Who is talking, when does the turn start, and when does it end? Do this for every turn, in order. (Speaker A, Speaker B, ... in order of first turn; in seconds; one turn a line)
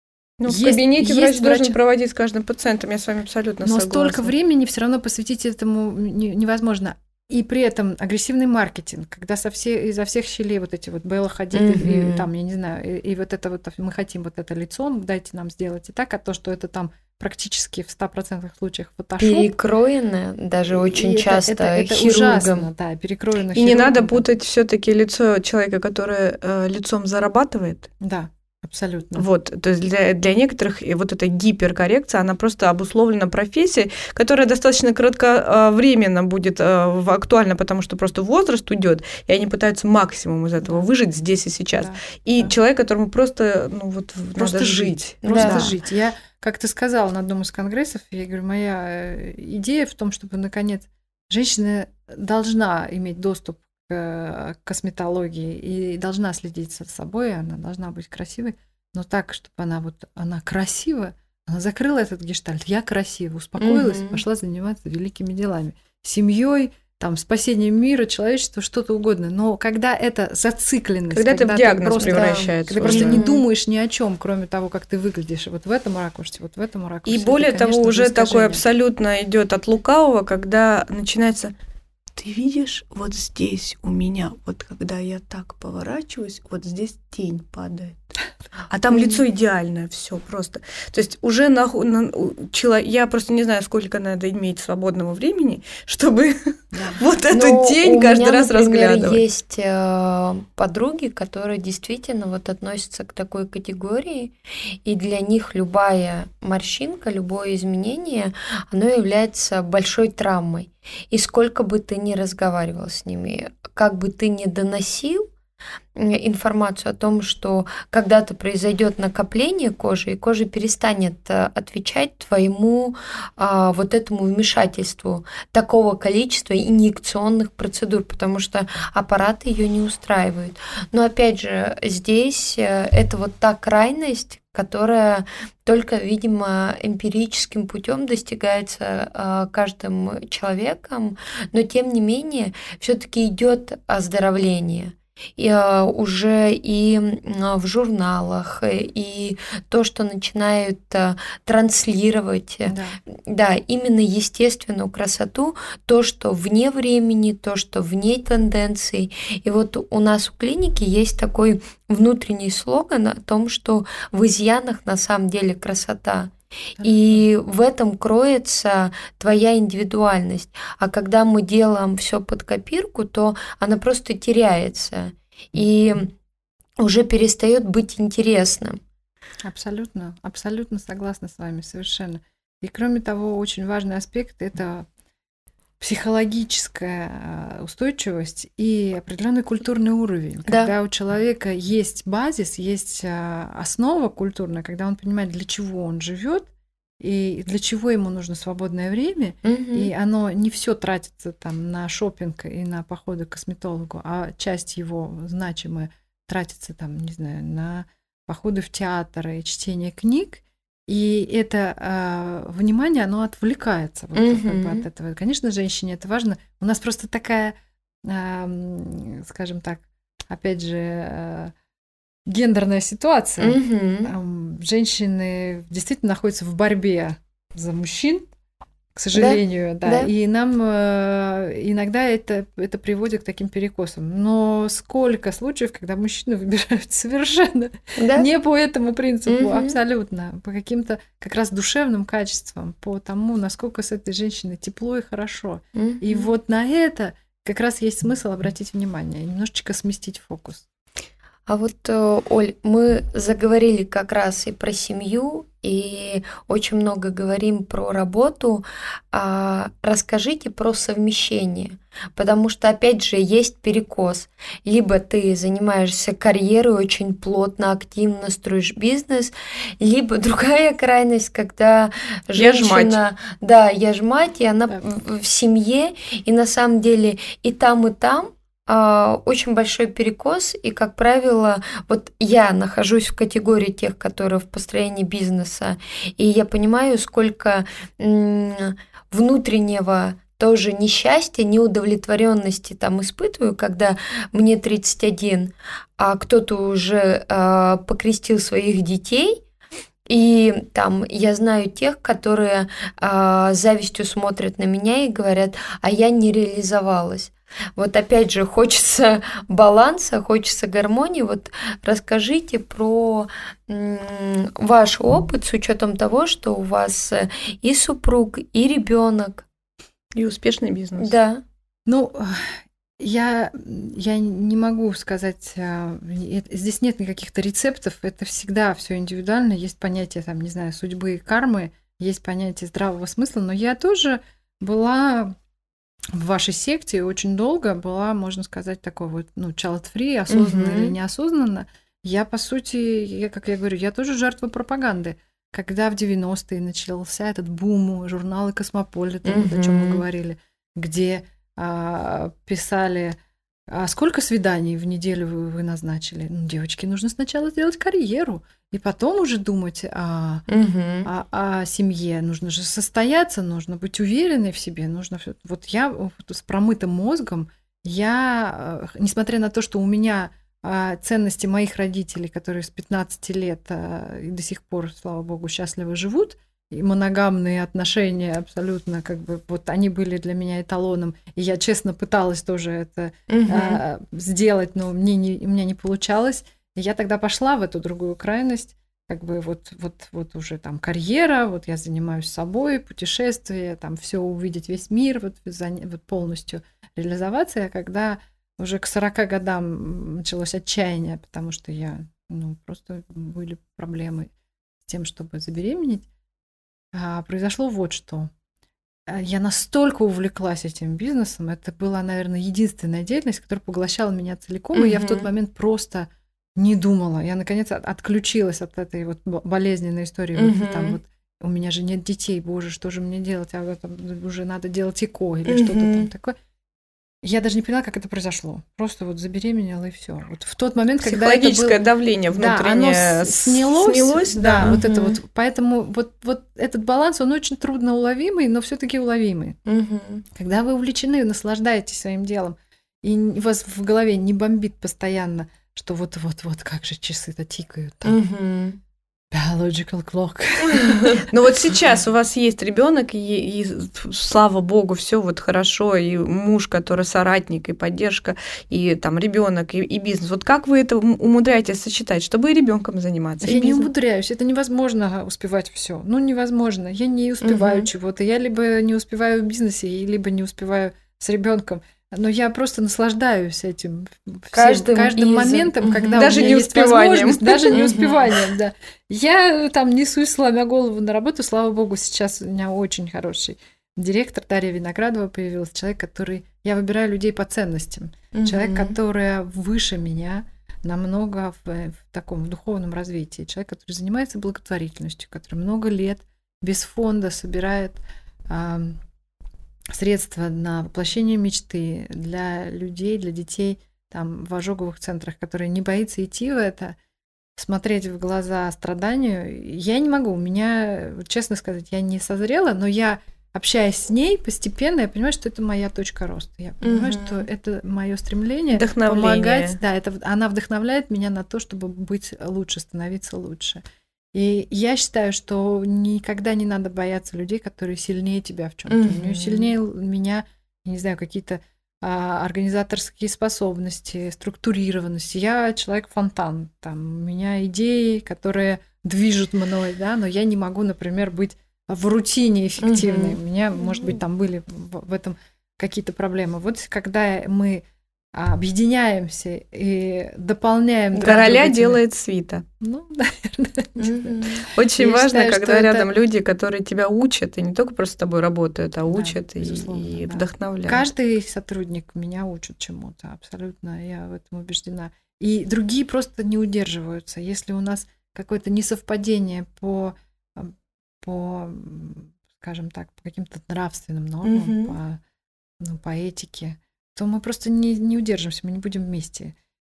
Speaker A: 0.4-4.3
Speaker B: 0.5-1.8
Speaker B: 3.6-19.5
Speaker C: 11.5-12.3
Speaker C: 19.2-22.7
Speaker B: 20.7-24.3
Speaker A: 23.5-27.9
Speaker B: 28.0-29.3
Speaker A: 29.2-45.7
Speaker B: 40.6-40.9
Speaker B: 41.7-42.5
Speaker B: 44.4-78.6
Speaker C: 45.2-45.7
Speaker C: 63.6-64.2
Speaker A: 71.1-73.2
Speaker C: 72.0-73.4
Speaker A: 77.1-81.5
Speaker A: 82.2-88.2
Speaker A: 88.7-99.2
Speaker C: 88.9-89.2
Speaker B: 96.7-97.0
Speaker C: 97.3-115.3
Speaker C: 116.0-176.1
Speaker B: 152.7-153.0
Speaker B: 166.8-167.3
Speaker C: 176.8-178.8
Speaker B: 179.4-184.9
Speaker B: 185.8-196.5
Speaker C: 190.5-190.7
Speaker B: 197.0-221.5
Speaker C: 199.4-199.9
Speaker C: 214.2-214.9
Speaker B: 222.3-228.3
Speaker C: 223.4-224.1
Speaker B: 228.9-250.7
Speaker C: 229.1-230.1
Speaker C: 238.0-238.3
Speaker C: 239.3-239.8
Speaker C: 245.8-246.3
Speaker C: 251.5-299.4
Speaker A: 272.4-273.0
Speaker C: 300.1-319.5
Speaker A: 320.1-321.1
Speaker C: 321.0-321.4
Speaker B: 321.9-335.4
Speaker B: 336.1-353.2
Speaker C: 340.3-340.9
Speaker C: 349.2-350.0
Speaker B: 353.7-360.4
Speaker C: 360.5-361.1
Speaker B: 361.1-404.3
Speaker C: 383.3-383.8
Speaker B: 404.8-406.1
Speaker B: 406.9-408.3
Speaker B: 409.1-426.4
Speaker C: 414.7-415.3
Speaker C: 420.4-421.0
Speaker C: 425.5-426.1
Speaker B: 427.2-439.6
Speaker A: 431.0-434.7
Speaker C: 434.6-435.2
Speaker C: 439.7-440.2
Speaker B: 440.3-448.2
Speaker C: 448.1-448.8
Speaker B: 449.3-451.3
Speaker A: 451.3-463.9
Speaker B: 463.4-499.0
Speaker C: 467.4-467.9
Speaker C: 474.5-476.4
Speaker A: 476.1-477.8
Speaker C: 477.7-478.3
Speaker C: 488.3-488.9
Speaker B: 499.9-507.0
Speaker B: 507.6-523.8
Speaker C: 516.8-517.5
Speaker A: 518.7-519.8
Speaker B: 524.3-552.0
Speaker C: 528.9-529.7
Speaker C: 542.8-543.4
Speaker A: 551.2-552.6
Speaker B: 552.8-556.1
Speaker C: 554.0-554.7
Speaker A: 554.8-561.0
Speaker B: 559.1-575.2
Speaker C: 574.4-575.0
Speaker B: 575.8-579.5